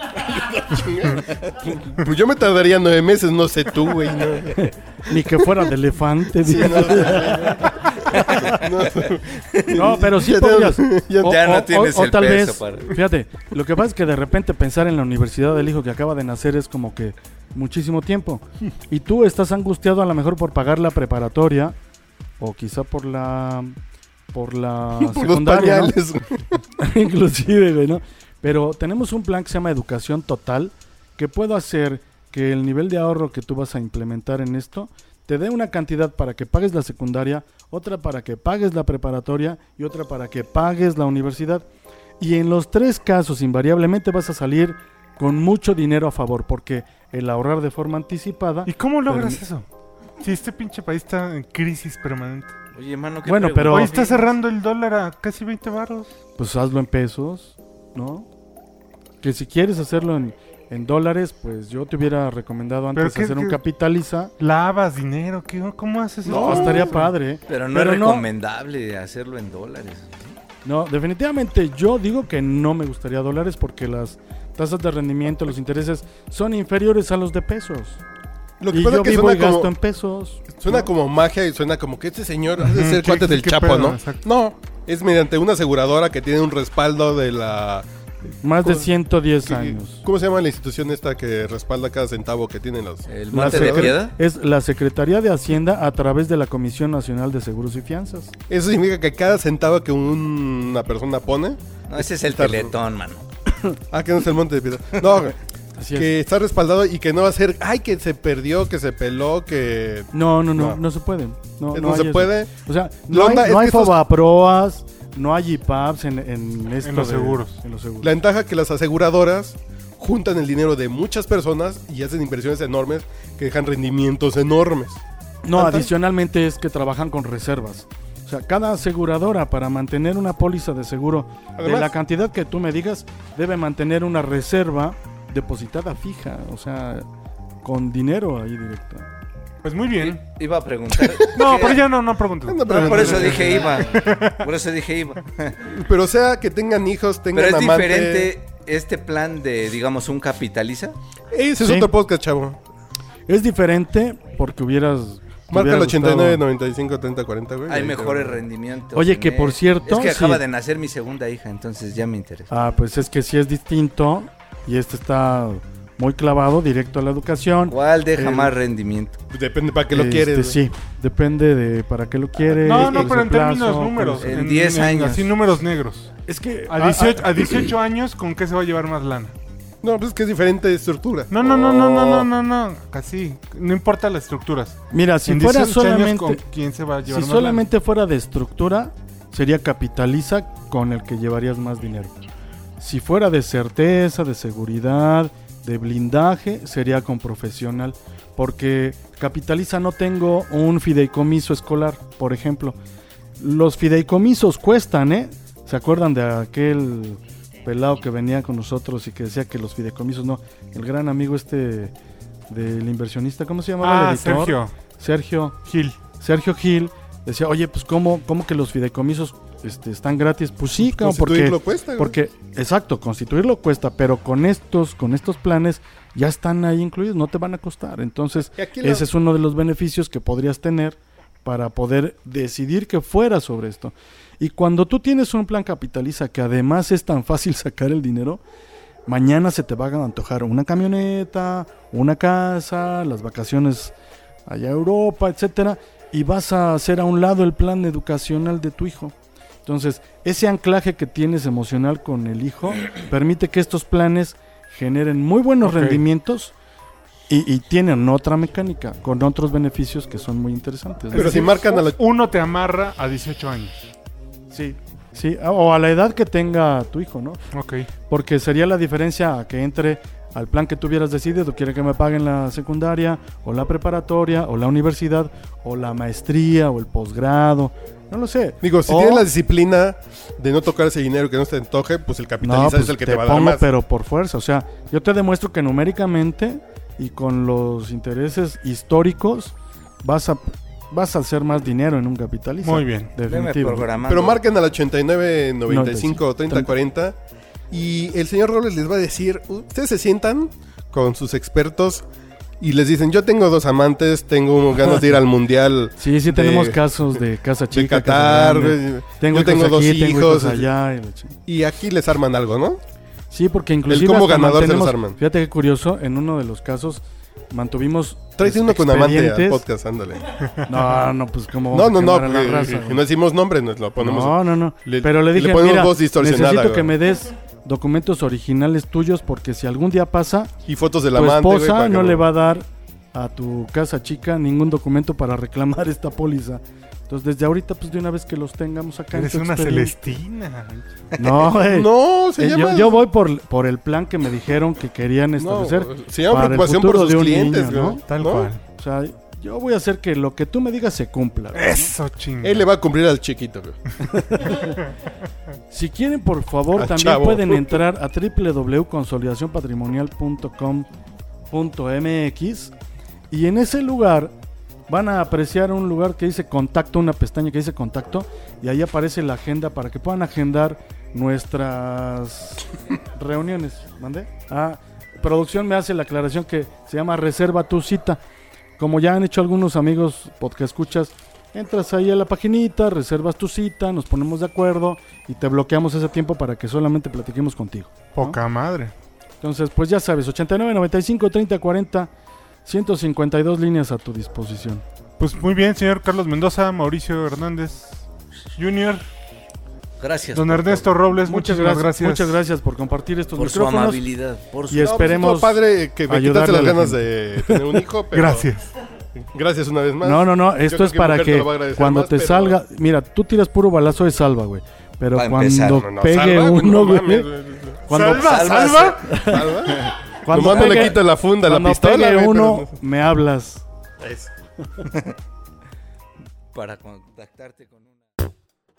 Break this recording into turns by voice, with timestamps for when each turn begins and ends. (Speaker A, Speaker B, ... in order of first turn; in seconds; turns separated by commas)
Speaker A: 0.4-4.7, Speaker B: 4.5-7.6, Speaker A: 6.4-11.4, Speaker C: 8.1-8.7, Speaker B: 9.7-21.7, Speaker C: 11.2-12.9, Speaker B: 22.4-23.7, Speaker B: 24.3-25.9, Speaker A: 24.9-26.6, Speaker B: 26.8-41.6, Speaker B: 42.2-49.4, Speaker D: 48.6-49.7, Speaker D: 50.2-52.5, Speaker C: 52.7-54.2, Speaker B: 53.2-54.0, Speaker D: 53.7-56.1, Speaker B: 56.4-58.3, Speaker B: 59.2-64.3, Speaker D: 62.9-63.6, Speaker D: 64.4-67.1, Speaker A: 66.2-67.0, Speaker B: 66.3-68.2, Speaker C: 67.5-70.3, Speaker B: 70.6-78.0, Speaker A: 78.6-79.7, Speaker B: 78.7-80.9, Speaker A: 80.5-87.8, Speaker D: 82.6-84.2, Speaker B: 88.4-90.0, Speaker A: 88.6-88.9, Speaker A: 89.5-94.0, Speaker C: 93.1-94.1, Speaker B: 93.3-98.3, Speaker A: 98.5-102.7, Speaker C: 101.9-103.2, Speaker A: 103.9-105.3, Speaker B: 105.8-106.1, Speaker A: 105.9-110.8, Speaker B: 110.1-118.1, Speaker A: 111.7-112.5, Speaker A: 113.1-114.0, Speaker D: 116.8-117.6, Speaker A: 118.0-125.0, Speaker B: 125.4-137.0, Speaker A: 125.5-125.9, Speaker A: 131.6-131.9, Speaker B: 137.6-139.1, Speaker D: 139.6-140.2, Speaker C: 140.0-141.9, Speaker A: 140.9-141.6, Speaker D: 141.3-144.4, Speaker A: 142.4-143.8, Speaker C: 142.7-145.7, Speaker A: 145.7-148.3, Speaker C: 147.3-150.9, Speaker A: 151.3-152.6, Speaker B: 151.6-151.9, Speaker B: 153.3-156.4, Speaker A: 155.5-158.4, Speaker C: 157.7-162.5, Speaker B: 158.9-160.4, Speaker B: 162.5-168.5, Speaker C: 167.7-169.2, Speaker A: 169.3-170.6, Speaker B: 169.9-174.4, Speaker D: 172.6-176.1, Speaker A: 172.7-173.1, Speaker C: 174.2-175.3, Speaker B: 176.2-177.6, Speaker D: 176.7-179.3, Speaker A: 179.8-182.3, Speaker D: 181.3-187.7, Speaker B: 184.9-186.4, Speaker B: 187.0-192.2, Speaker B: 192.8-202.8, Speaker B: 203.4-211.9, Speaker B: 212.5-215.6, Speaker D: 213.8-214.7, Speaker D: 215.7-216.0, Speaker B: 216.1-238.4, Speaker A: 220.8-222.2, Speaker A: 228.4-229.1, Speaker B: 239.1-243.9, Speaker B: 244.4-256.5, Speaker D: 255.6-256.0, Speaker B: 257.3-261.5, Speaker A: 261.1-262.0, Speaker D: 261.1-263.8, Speaker B: 264.5-267.4, Speaker D: 267.5-267.9, Speaker B: 268.1-279.3, Speaker A: 278.6-283.7, Speaker B: 282.4-293.9, Speaker D: 292.6-293.1, Speaker C: 293.2-294.4, Speaker A: 294.0-297.1, Speaker B: 295.7-296.7, Speaker A: 297.7-302.0, Speaker A: 302.6-307.2, Speaker B: 306.0-311.4, Speaker A: 307.7-310.7, Speaker A: 311.5-312.8, Speaker B: 313.3-319.6, Speaker A: 313.9-315.2, Speaker A: 318.4-320.3, Speaker B: 320.6-323.0, Speaker A: 321.7-327.0, Speaker B: 324.0-330.5, Speaker A: 330.6-332.2, Speaker B: 331.1-340.2, Speaker D: 339.1-340.9, Speaker B: 341.2-348.0, Speaker A: 341.4-343.0, Speaker A: 345.4-348.5, Speaker D: 348.1-348.6, Speaker B: 348.7-351.9, Speaker D: 351.5-352.6, Speaker A: 352.4-353.8, Speaker B: 354.1-354.8, Speaker B: 355.7-360.9, Speaker A: 356.7-357.8, Speaker B: 361.5-362.7, Speaker B: 363.3-364.3, Speaker B: 364.9-378.2, Speaker B: 378.8-388.4, Speaker D: 388.1-388.9, Speaker B: 389.4-392.1, Speaker B: 392.6-394.8, Speaker D: 395.2-398.0, Speaker D: 398.6-399.0, Speaker C: 400.0-400.9, Speaker D: 400.3-402.4, Speaker B: 401.2-404.0, Speaker C: 403.4-405.3, Speaker B: 404.7-407.6, Speaker A: 404.8-408.5, Speaker D: 408.1-408.7, Speaker A: 409.1-412.6, Speaker B: 410.0-417.3, Speaker C: 415.1-415.9, Speaker A: 415.7-417.8, Speaker B: 417.9-419.7, Speaker D: 417.9-419.1, Speaker C: 418.1-419.0, Speaker A: 418.6-422.7, Speaker C: 419.7-420.9, Speaker B: 420.2-423.6, Speaker A: 424.0-424.3, Speaker C: 424.9-425.1, Speaker C: 426.5-427.9